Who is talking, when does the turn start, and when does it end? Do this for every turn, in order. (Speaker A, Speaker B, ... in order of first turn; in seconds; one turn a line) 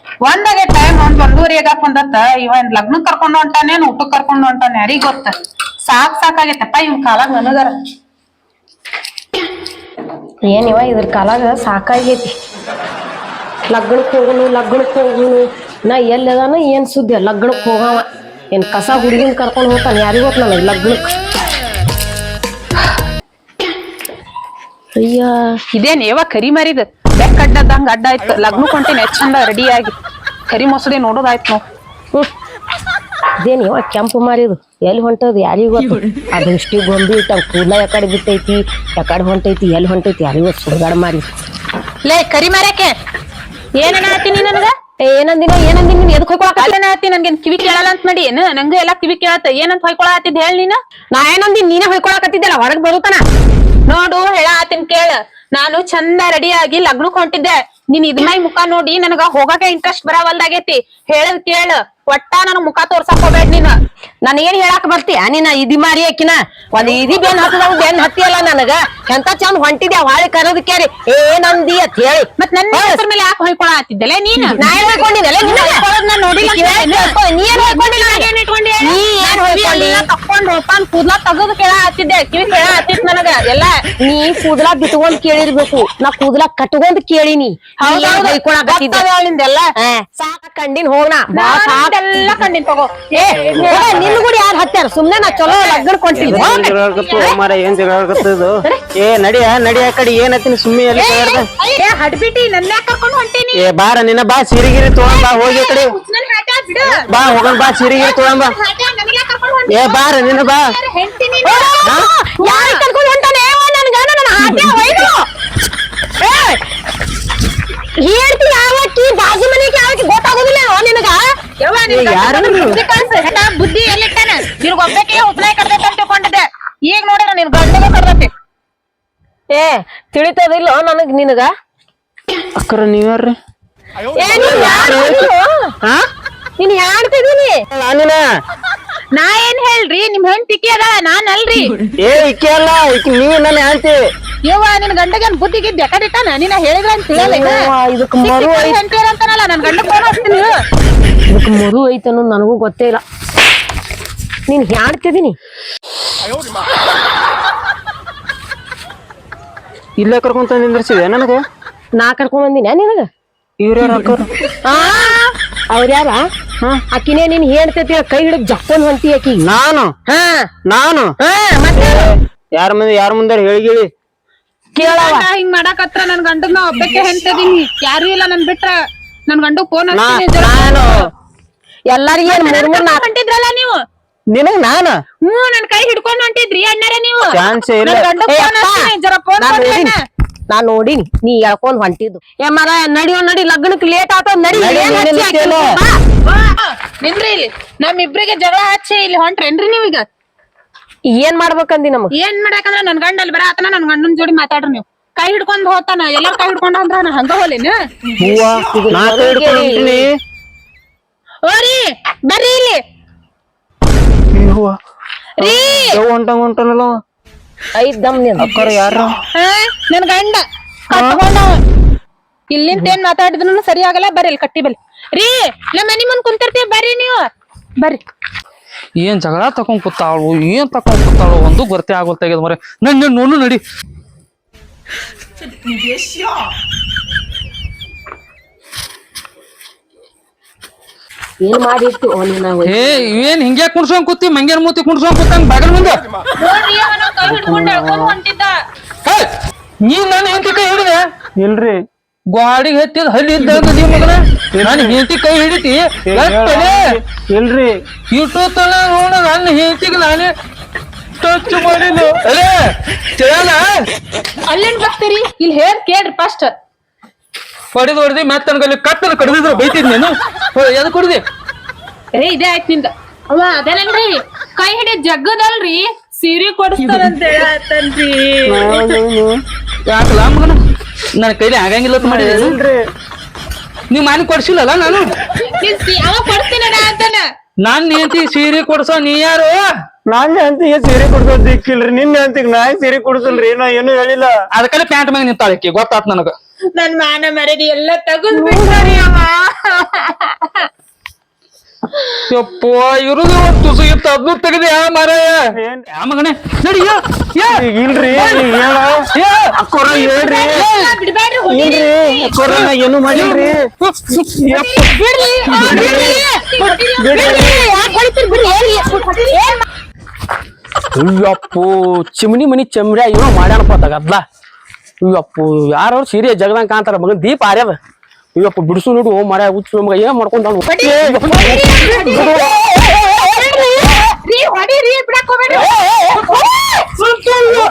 Speaker A: 0.2-7.8
Speaker B: 10.5-12.3
Speaker B: 13.7-21.1
Speaker B: 25.0-25.5
Speaker A: 25.8-29.9
Speaker A: 30.5-31.6
Speaker B: 33.4-41.3
Speaker A: 42.0-42.9
Speaker A: 43.8-44.7
Speaker B: 45.0-46.7
Speaker A: 46.6-50.8
Speaker B: 51.1-53.2
Speaker A: 53.9-63.8
Speaker B: 64.2-73.0
Speaker A: 72.4-83.8
Speaker B: 74.6-75.9
Speaker B: 76.4-78.3
Speaker B: 78.8-80.1
Speaker B: 84.0-89.0
Speaker A: 87.8-89.7
Speaker B: 89.8-92.3
Speaker A: 91.3-94.1
Speaker B: 93.2-96.7
Speaker C: 93.6-94.1
Speaker A: 95.5-97.4
Speaker C: 96.2-101.5
Speaker A: 101.0-103.7
Speaker C: 103.5-105.9
Speaker A: 105.0-111.8
Speaker C: 107.1-108.5
Speaker C: 109.7-110.7
Speaker B: 111.5-115.2
Speaker A: 112.4-112.8
Speaker B: 116.2-116.6
Speaker B: 118.0-121.2
Speaker A: 121.6-128.3
Speaker C: 121.9-122.8
Speaker B: 129.5-131.5
Speaker C: 132.6-133.3
Speaker B: 134.2-135.8
Speaker C: 134.3-135.3
Speaker A: 134.4-134.8
Speaker B: 136.6-137.7
Speaker C: 137.7-138.2
Speaker A: 139.1-141.7
Speaker C: 142.0-144.0
Speaker A: 144.5-147.7
Speaker B: 147.2-148.8
Speaker A: 148.2-150.6
Speaker B: 151.3-153.0
Speaker B: 154.5-155.3
Speaker C: 160.0-161.4
Speaker B: 162.0-163.1
Speaker C: 163.6-164.3
Speaker B: 164.7-166.2
Speaker B: 166.9-169.5
Speaker C: 169.4-169.9
Speaker B: 170.1-170.5
Speaker C: 170.7-171.1
Speaker B: 171.2-172.2
Speaker C: 171.8-173.9
Speaker B: 174.8-175.3
Speaker A: 174.8-178.8
Speaker A: 179.3-181.0
Speaker C: 179.9-180.2
Speaker B: 180.4-181.1
Speaker B: 181.9-183.1
Speaker A: 182.2-183.8
Speaker C: 184.3-185.0
Speaker A: 185.2-190.0
Speaker C: 187.3-188.1
Speaker B: 188.3-189.9
Speaker B: 190.5-195.9
Speaker C: 194.6-195.6
Speaker A: 194.6-200.1
Speaker B: 201.1-202.1
Speaker A: 202.1-207.7
Speaker C: 208.2-210.1
Speaker B: 208.7-210.1
Speaker A: 211.4-212.8
Speaker C: 214.3-214.8
Speaker A: 215.4-216.0
Speaker C: 215.4-216.9
Speaker B: 217.8-218.7
Speaker C: 218.4-219.2
Speaker A: 219.3-221.6
Speaker C: 220.9-221.2
Speaker A: 222.5-228.0
Speaker D: 229.0-233.6
Speaker B: 241.4-243.2
Speaker D: 242.7-246.0
Speaker A: 246.4-248.6
Speaker C: 247.2-248.2
Speaker D: 249.8-251.1
Speaker C: 251.4-251.8
Speaker D: 252.3-256.8
Speaker C: 254.5-255.0
Speaker C: 256.1-257.7
Speaker D: 258.1-260.3
Speaker D: 261.2-262.6
Speaker D: 263.1-263.6
Speaker A: 264.4-266.5
Speaker D: 267.7-271.2
Speaker A: 272.1-278.9
Speaker C: 278.4-279.4
Speaker D: 279.9-280.6
Speaker D: 281.2-282.6
Speaker C: 282.0-282.8
Speaker D: 283.9-285.1
Speaker A: 285.6-287.2
Speaker D: 287.6-289.6
Speaker C: 290.1-294.3
Speaker D: 294.5-296.3
Speaker A: 296.7-300.7
Speaker D: 302.3-307.6
Speaker C: 305.5-305.9
Speaker C: 307.5-308.9
Speaker A: 308.1-308.4
Speaker D: 309.1-309.5
Speaker C: 309.6-310.7
Speaker A: 309.8-312.7
Speaker C: 311.5-313.6
Speaker D: 312.4-314.2
Speaker C: 314.3-314.8
Speaker A: 314.5-319.5
Speaker D: 315.5-316.1
Speaker C: 315.6-316.2
Speaker B: 315.6-316.0
Speaker B: 317.0-319.6
Speaker C: 317.2-317.4
Speaker E: 320.9-324.2
Speaker E: 325.0-327.8
Speaker E: 328.4-333.6
Speaker A: 330.7-332.3
Speaker A: 333.2-335.7
Speaker E: 335.5-336.7
Speaker D: 337.0-337.4